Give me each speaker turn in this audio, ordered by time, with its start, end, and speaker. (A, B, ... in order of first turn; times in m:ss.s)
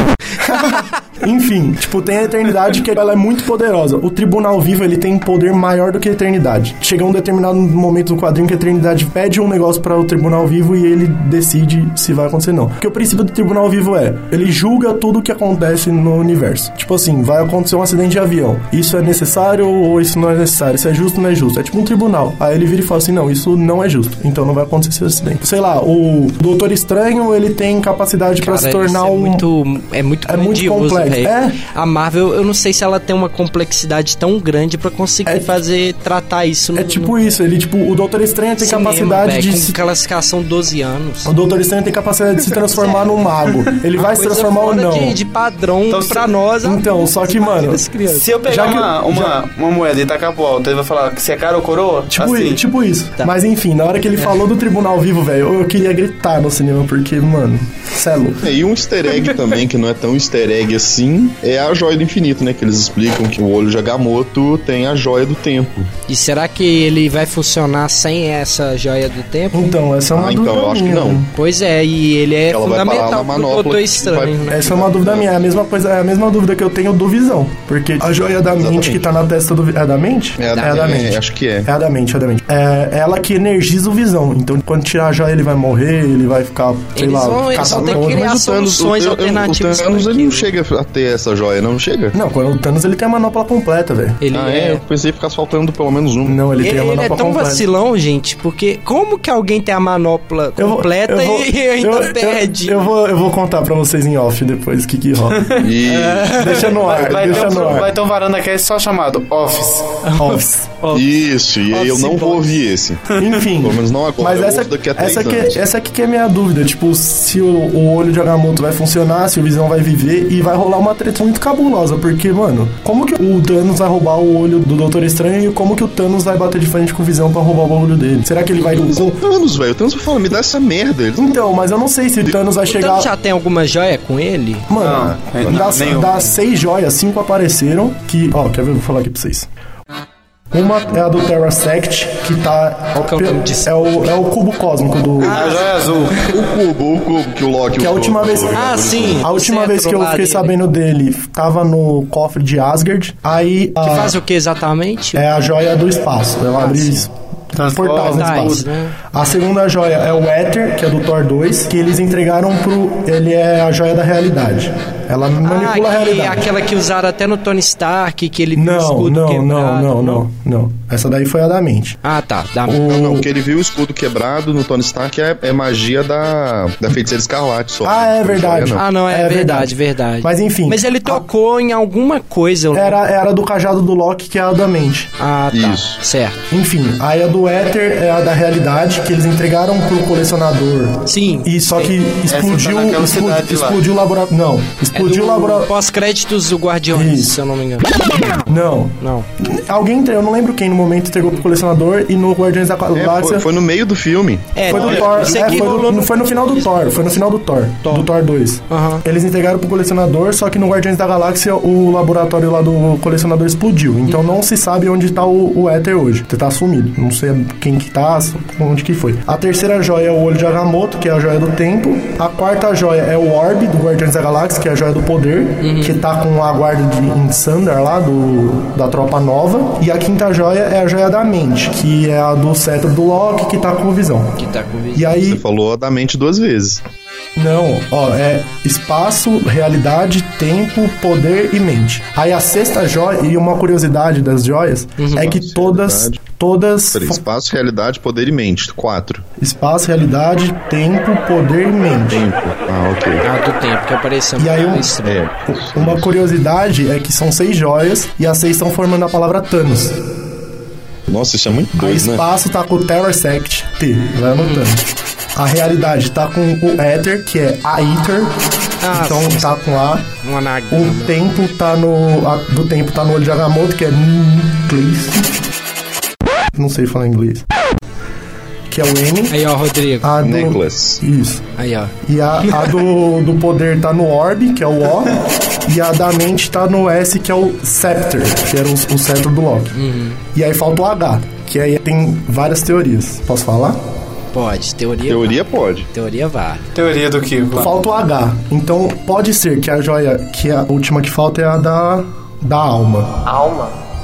0:00.4-0:29.4 A
0:28.4-0:37.1 B
0:30.2-0:31.6 A
0:36.8-0:39.8 A
0:38.6-0:41.3 B
0:41.2-0:45.2 A
0:42.7-0:43.1 B
0:43.9-0:48.3 B
0:45.9-0:46.2 C
0:46.6-0:47.8 A
0:48.1-0:52.6 C
0:48.4-0:49.3 A
0:52.1-0:58.4 A
0:58.4-1:05.9 D
1:06.1-1:09.7 B
1:09.5-1:11.3 A
1:10.1-1:11.3 D
1:11.3-1:14.7 B
1:12.5-1:15.5 D
1:14.5-1:28.3 A
1:18.4-1:19.1 D
1:20.4-1:21.7 D
1:20.5-1:21.0 B
1:26.9-1:30.5 B
1:27.6-1:32.2 D
1:32.1-1:34.2 A
1:34.2-1:34.8 B
1:34.3-1:36.4 D
1:36.2-1:37.6 A
1:36.6-1:42.9 B
1:40.6-1:45.5 A
1:45.3-1:45.7 C
1:45.6-1:46.5 D
1:45.9-1:46.8 B
1:46.4-1:47.9 A
1:46.8-1:49.9 C
1:47.5-1:47.8 D
1:50.0-1:51.0 B
1:50.2-1:50.7 A
1:50.9-1:55.6 D
1:51.7-1:52.5 B
1:53.2-2:09.2 A
2:08.6-2:11.4 D
2:11.2-2:13.1 A
2:12.6-2:14.7 B
2:14.7-2:19.5 A
2:14.8-2:16.3 C
2:14.9-2:15.6 D
2:20.5-2:25.3 A
2:23.0-2:23.9 B
2:25.2-2:26.1 B
2:25.3-2:26.2 C
2:26.3-2:29.2 D
2:27.8-2:28.6 A
2:28.5-2:30.6 B
2:29.2-2:34.2 A
2:33.8-2:35.3 B
2:35.2-2:46.5 A
2:36.6-2:37.1 B
2:37.5-2:38.6 C
2:38.0-2:39.0 B
2:45.4-2:50.2 B
2:48.6-2:52.0 A
2:52.0-2:52.8 B
2:52.7-2:53.3 A
2:52.8-2:58.8 D
2:57.8-3:01.2 A
2:58.7-3:03.0 B
3:02.7-3:05.1 A
3:05.2-3:06.4 B
3:05.5-3:06.0 D
3:06.5-3:15.7 A
3:11.0-3:11.9 B
3:12.3-3:13.8 C
3:14.9-3:18.3 B
3:16.9-3:17.4 A
3:18.5-3:23.5 A
3:19.0-3:19.3 B
3:22.9-3:25.0 D
3:24.5-3:27.2 B
3:24.7-3:54.3 A
3:24.7-3:25.7 C
3:27.8-3:28.1 B
3:28.7-3:29.0 B
3:45.6-3:46.0 B
3:54.4-3:55.1 B
3:54.9-3:55.4 A
3:55.1-3:56.8 D
3:57.4-4:07.2 A
4:05.0-4:05.4 B
4:05.2-4:06.2 D
4:06.9-4:09.2 D
4:09.4-4:12.2 A
4:12.1-4:13.2 D
4:13.2-4:15.2 B
4:14.4-4:14.9 A
4:15.0-4:16.1 D
4:15.5-4:19.9 A
4:21.1-4:22.3 D
4:21.8-4:24.8 A
4:24.4-4:24.7 B
4:25.4-4:28.3 A
4:28.8-4:29.6 B
4:28.9-4:30.1 A
4:30.2-4:31.1 B
4:30.7-4:35.2 A
4:36.5-4:37.4 A
4:38.7-4:39.4 A
4:39.3-4:40.1 B
4:40.0-4:41.4 A
4:40.2-4:41.0 D
4:41.6-4:41.9 B
4:42.0-4:49.7 A
4:42.4-4:42.7 B
4:49.7-4:50.2 B
4:50.3-4:53.8 A
4:54.3-4:56.6 B
4:55.0-4:55.9 D
4:56.7-4:57.7 C
4:57.6-5:03.2 A
5:03.2-5:03.7 C